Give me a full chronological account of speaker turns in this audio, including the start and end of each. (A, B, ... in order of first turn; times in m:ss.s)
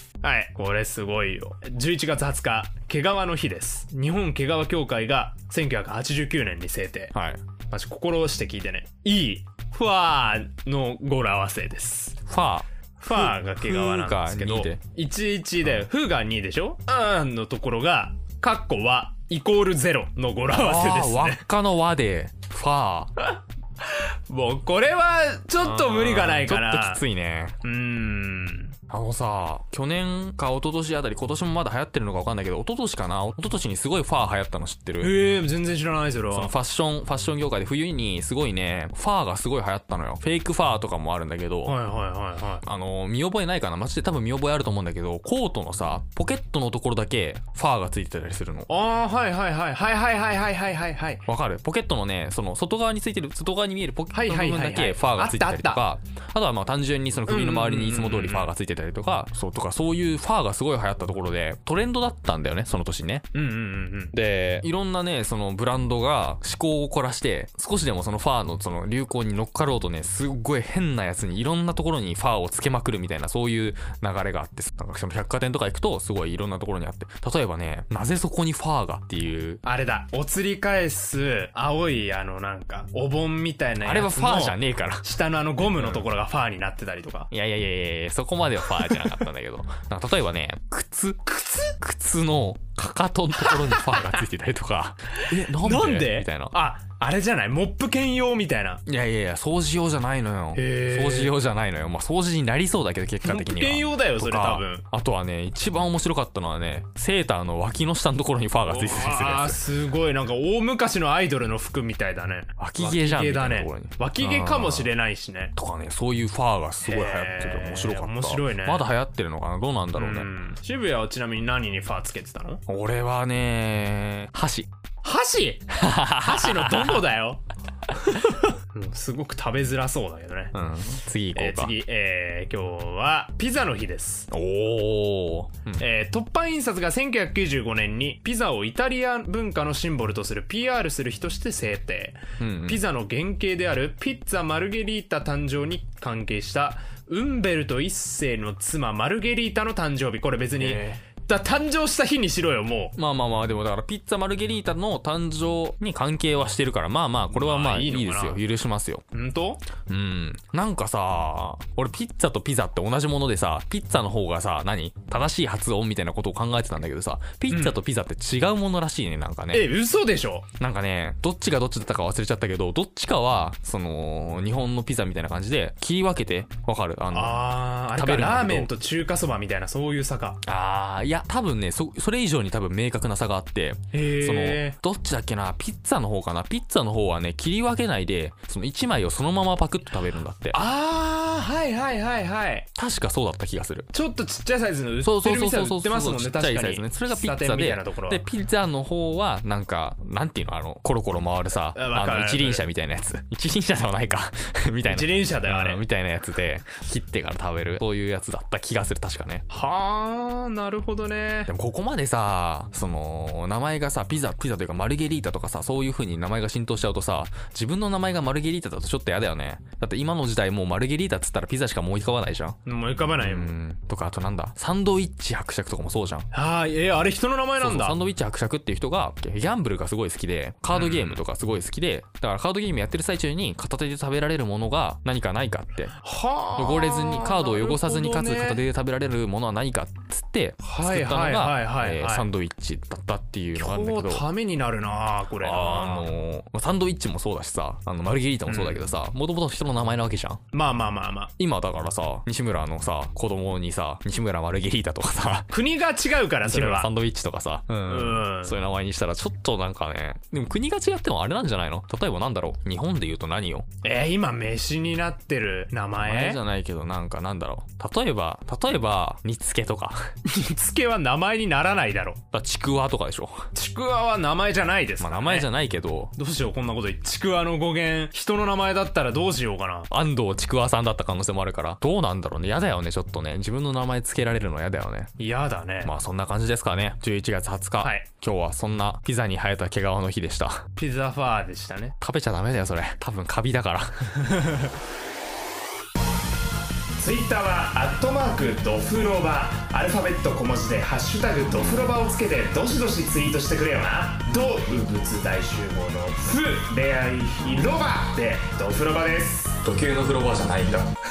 0:00.2-0:07.1 A
0:07.1-0:07.4 B
0:07.7-0:12.2 A
0:12.3-0:14.8 B
0:13.0-0:21.4 A
0:20.5-0:23.1 B
0:23.2-0:27.0 A
0:25.6-0:27.6 B
0:27.6-0:28.7 A
0:28.9-0:35.3 B
0:35.0-0:36.5 A
0:36.3-0:41.8 B
0:41.6-0:42.6 A
0:42.6-0:48.7 B
0:48.7-0:51.2 A
0:51.2-1:03.3 B
0:54.1-0:55.8 A
0:57.2-0:58.5 A
1:03.3-1:04.1 A
1:04.1-1:19.6 B
1:19.6-1:27.3 A
1:23.8-1:25.0 B
1:25.6-1:26.1 B
1:27.3-1:36.6 B
1:31.4-1:31.7 A
1:33.4-1:34.0 A
1:35.2-1:38.8 A
1:38.8-1:49.6 B
1:40.6-1:41.3 A
1:43.2-1:44.8 A
1:48.7-1:55.5 A
1:52.6-1:54.9 B
1:55.6-2:00.3 B
1:56.8-1:58.9 A
1:59.9-2:02.6 A
2:02.7-2:04.7 B
2:05.0-2:10.6 A
2:05.8-2:07.0 B
2:10.5-2:11.8 B
2:11.3-2:14.3 A
2:14.3-2:15.8 B
2:15.8-2:32.9 A
2:22.4-2:22.8 B
2:30.6-2:31.0 B
2:32.9-2:39.0 B
2:37.3-2:38.4 A
2:39.1-2:39.6 A
2:39.9-2:49.7 B
2:47.5-2:47.8 A
2:49.5-2:50.5 A
2:50.6-2:58.7 B
2:57.1-3:00.4 A
3:00.4-3:10.7 B
3:03.9-3:04.8 A
3:10.5-3:12.7 A
3:12.8-3:13.9 B
3:13.9-3:18.2 A
3:15.0-3:29.4 B
3:21.7-3:22.6 A
3:24.8-3:25.8 A
3:29.5-3:31.5 A
3:31.5-3:42.6 B
3:42.6-3:43.6 A
3:43.1-3:46.3 B
3:46.3-3:48.0 A
3:47.6-3:56.0 B
3:50.7-3:51.2 A
3:56.0-3:58.6 A
3:56.6-4:04.2 B
4:00.6-4:02.3 A
4:03.6-4:06.1 A
4:05.4-4:10.4 B
4:08.5-4:08.9 A
4:10.5-4:11.3 A
4:11.4-4:15.6 B
4:15.5-4:16.9 A
4:16.4-4:23.7 B
4:17.8-4:18.6 A
4:23.8-4:26.4 A
4:26.0-4:30.1 B
4:30.2-4:32.2 A
4:32.3-4:33.5 B
4:33.5-4:35.5 A
4:35.0-4:36.2 B
4:36.2-4:39.9 A
4:39.9-4:45.1 B
4:45.2-4:45.9 A
4:45.8-4:50.6 B
4:47.8-4:48.0 A
4:50.8-4:52.0 A
4:52.0-4:54.5 B
4:54.3-4:54.6 A
4:56.9-5:09.6 A
5:09.6-5:10.9 B